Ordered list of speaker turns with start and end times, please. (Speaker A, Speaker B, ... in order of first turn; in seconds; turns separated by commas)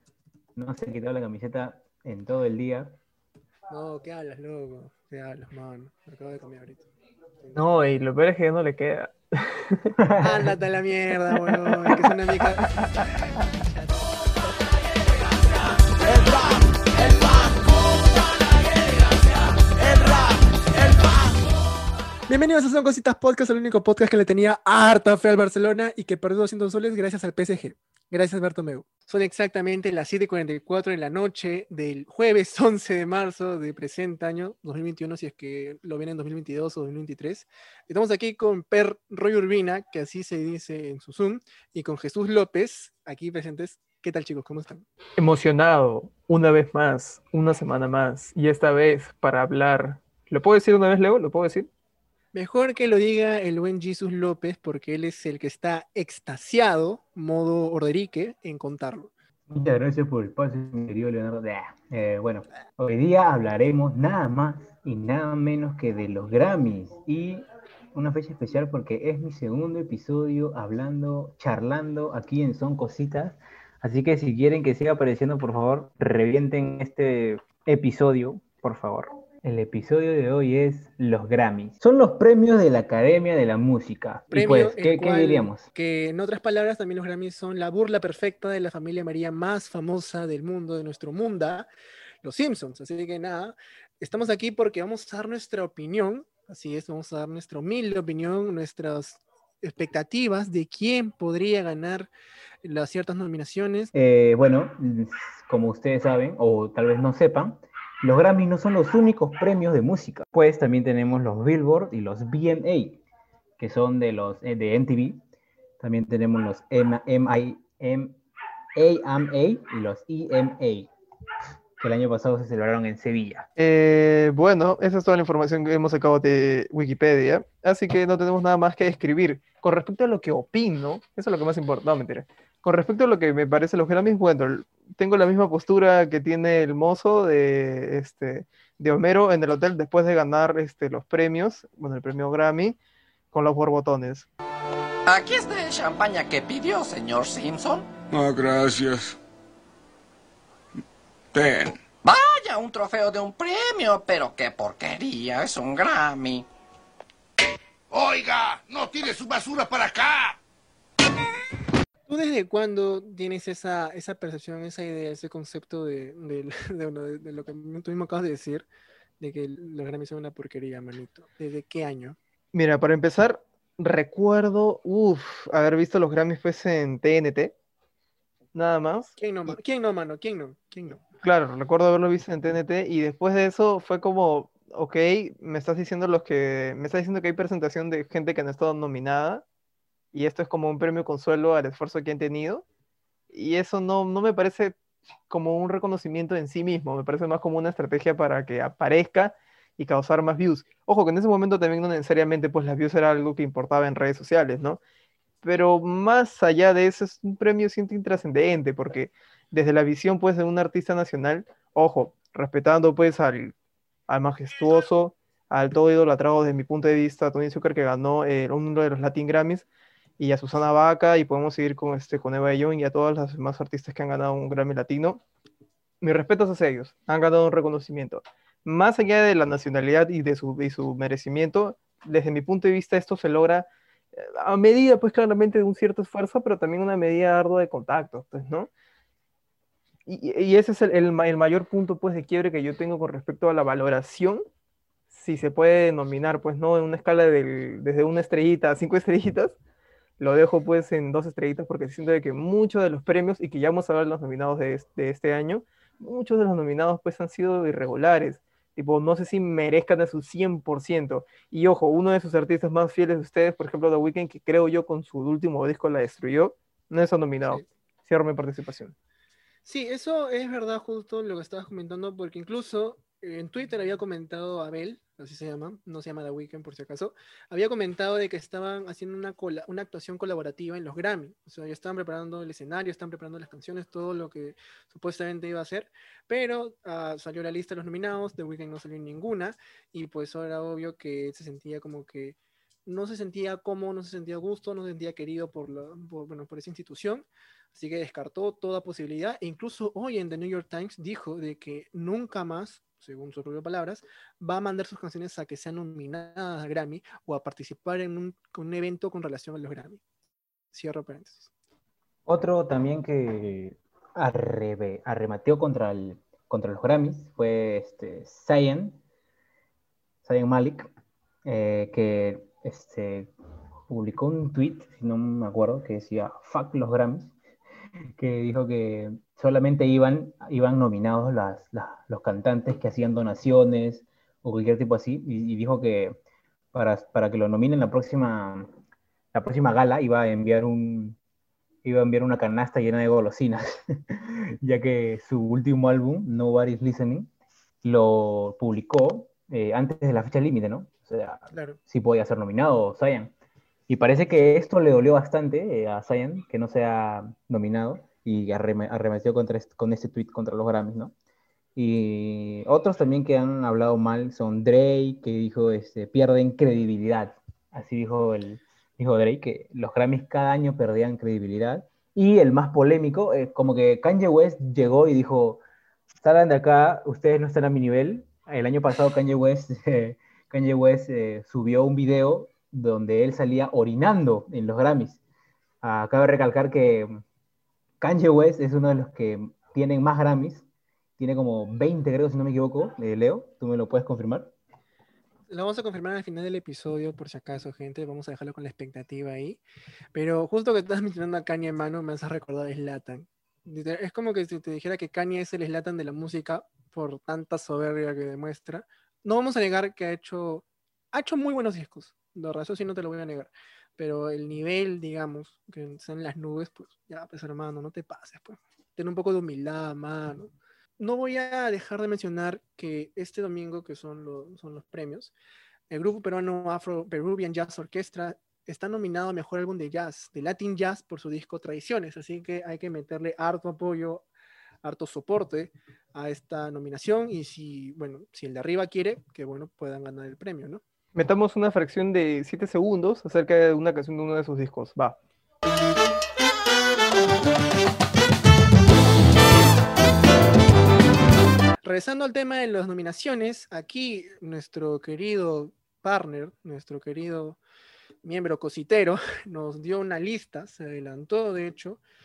Speaker A: 0.6-3.0, Speaker B: 3.7-6.9, Speaker C: 7.5-10.0, Speaker A: 10.0-10.4, Speaker B: 10.2-14.1, Speaker C: 11.5-11.9, Speaker C: 12.5-13.1, Speaker B: 22.3-44.9, Speaker C: 45.2-51.7, Speaker B: 52.3-59.1, Speaker A: 59.5-85.7, Speaker B: 84.3-91.7, Speaker B: 92.2-102.1, Speaker B: 102.6-103.9, Speaker A: 103.9-113.0, Speaker A: 113.6-115.2, Speaker A: 115.8-118.2, Speaker A: 118.8-120.9, Speaker A: 121.8-123.5, Speaker C: 123.6-142.8, Speaker C: 143.3-144.3, Speaker D: 145.1-147.9, Speaker E: 148.1-149.2, Speaker E: 151.3-151.8, Speaker D: 152.0-156.5, Speaker E: 157.9-160.4, Speaker B: 162.1-168.7, Speaker B: 169.2-172.2, Speaker C: 172.5-177.5, Speaker C: 178.5-179.2, Speaker B: 179.2-181.0, Speaker C: 181.2-189.4, Speaker C: 190.1-192.7, Speaker C: 193.3-194.8, Speaker C: 195.3-204.8, Speaker C: 205.4-213.5, Speaker C: 214.1-219.7, Speaker C: 220.2-225.2, Speaker C: 226.0-238.7, Speaker C: 240.1-244.4, Speaker C: 245.1-249.6, Speaker C: 250.2-268.9, Speaker B: 269.7-310.0, Speaker B: 310.7-311.5, Speaker A: 312.3-319.0, Speaker A: 320.2-320.9, Speaker A: 321.4-323.3, Speaker A: 323.9-327.3, Speaker A: 328.2-336.2, Speaker A: 336.7-338.7, Speaker A: 339.3-341.2, Speaker A: 341.8-347.3, Speaker A: 347.8-353.3, Speaker B: 351.5-351.8, Speaker A: 353.9-361.1, Speaker A: 361.8-375.6, Speaker A: 376.2-385.2, Speaker A: 385.8-387.2, Speaker A: 388.0-390.7, Speaker A: 391.2-394.5, Speaker B: 395.5-399.6, Speaker B: 400.1-425.3, Speaker B: 425.9-434.3, Speaker B: 434.8-440.8, Speaker C: 441.1-445.2, Speaker B: 451.8-457.6, Speaker B: 458.2-462.0